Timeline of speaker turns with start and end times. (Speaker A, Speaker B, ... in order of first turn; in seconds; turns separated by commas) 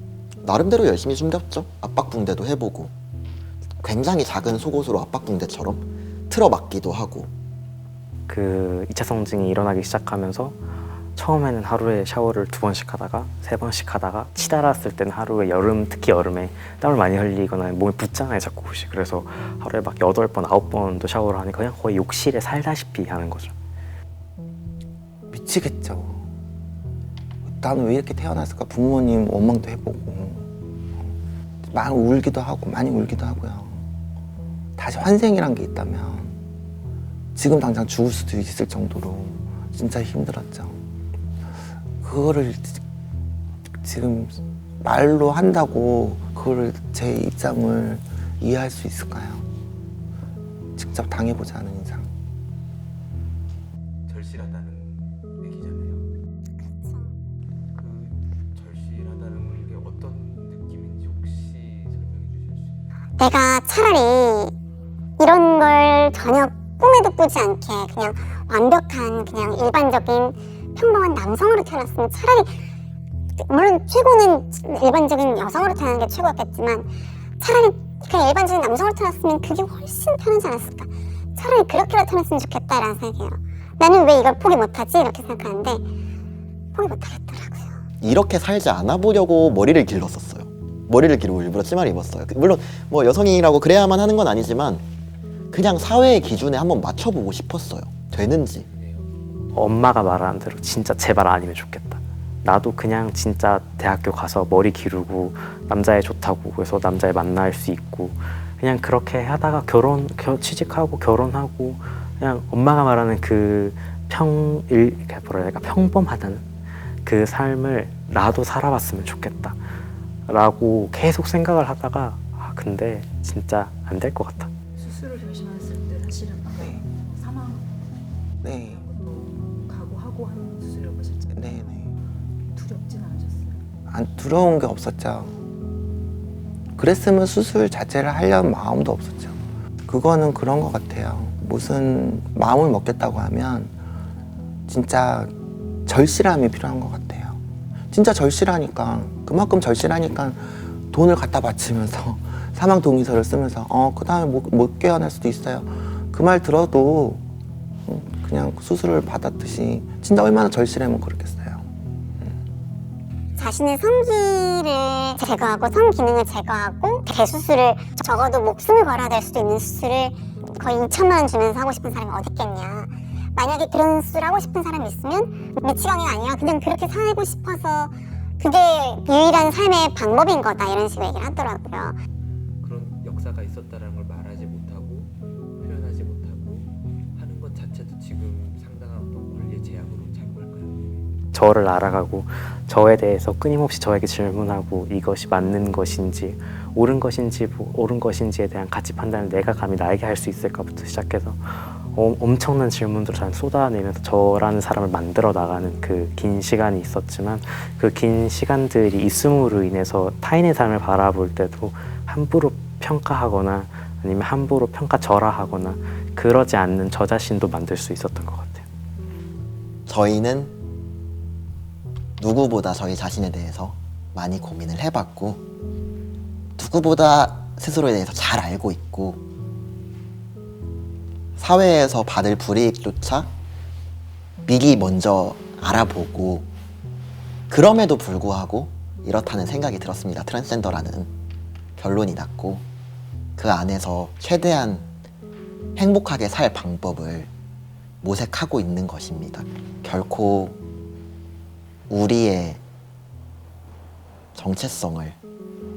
Speaker A: 0.4-2.9, Speaker A: 3.8-7.3, Speaker B: 8.3-23.5, Speaker C: 25.3-26.3, Speaker C: 27.4-31.1, Speaker C: 31.7-33.9, Speaker C: 34.8-36.4, Speaker C: 37.4-40.9, Speaker C: 42.0-42.8, Speaker C: 43.8-49.5, Speaker C: 50.8-52.1, Speaker D: 54.1-56.1, Speaker E: 56.7-57.1, Speaker D: 57.7-62.8, Speaker E: 63.2-64.5, Speaker E: 65.2-72.7, Speaker E: 73.4-85.9, Speaker E: 86.7-87.8, Speaker A: 88.0-94.8, Speaker A: 95.5-98.7, Speaker D: 98.4-99.3, Speaker B: 99.5-116.4, Speaker B: 117.0-119.7, Speaker B: 120.3-124.5, Speaker F: 124.8-127.8, Speaker C: 126.6-126.8, Speaker C: 128.4-128.9, Speaker F: 128.7-131.6, Speaker C: 131.3-131.9, Speaker F: 132.5-133.6, Speaker C: 133.9-135.4, Speaker C: 136.8-143.7, Speaker C: 144.7-145.3, Speaker C: 145.9-157.2, Speaker C: 157.8-161.7, Speaker E: 163.4-182.0, Speaker D: 182.6-191.1, Speaker B: 191.3-218.7, Speaker A: 219.9-220.6, Speaker A: 222.2-225.4, Speaker A: 226.6-229.2, Speaker A: 231.4-233.3, Speaker A: 234.5-236.5, Speaker A: 237.5-241.1, Speaker A: 241.8-242.7, Speaker A: 243.4-244.9, Speaker A: 245.8-247.3, Speaker A: 248.0-250.6, Speaker A: 251.9-252.6, Speaker A: 254.3-255.2